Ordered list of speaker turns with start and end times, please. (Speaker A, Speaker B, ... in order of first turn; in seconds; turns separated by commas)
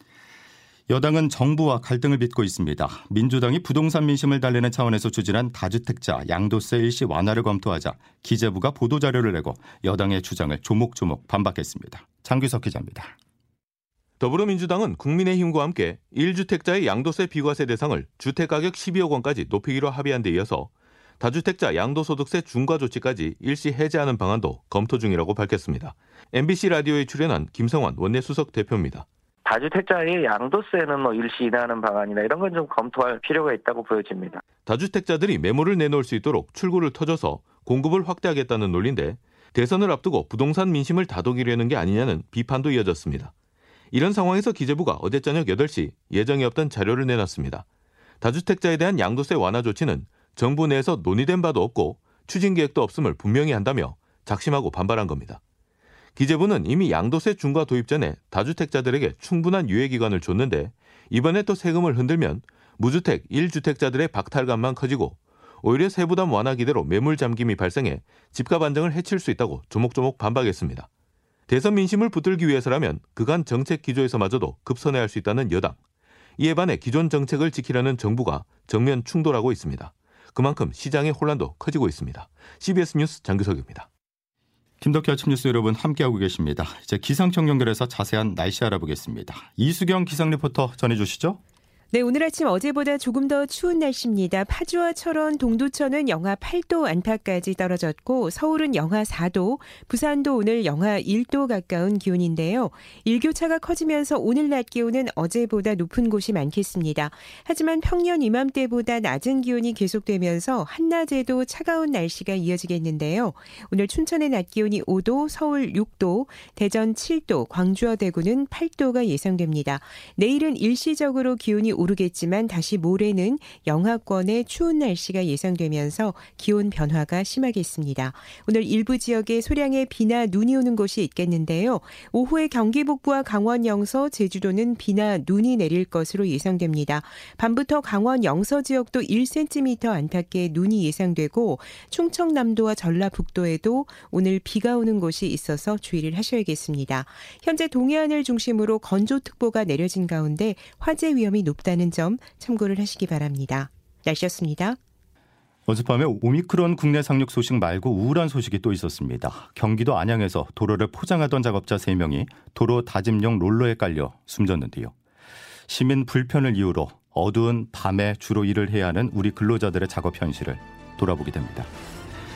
Speaker A: 0.9-13.1, Speaker B: 14.2-29.1, Speaker C: 29.5-34.4, Speaker B: 34.6-43.3, Speaker B: 43.9-47.6, Speaker B: 48.2-55.4, Speaker B: 56.2-70.9, Speaker B: 71.5-75.8, Speaker B: 76.4-83.9, Speaker A: 84.8-91.4, Speaker D: 91.9-154.8, Speaker A: 155.7-164.9, Speaker A: 165.7-171.7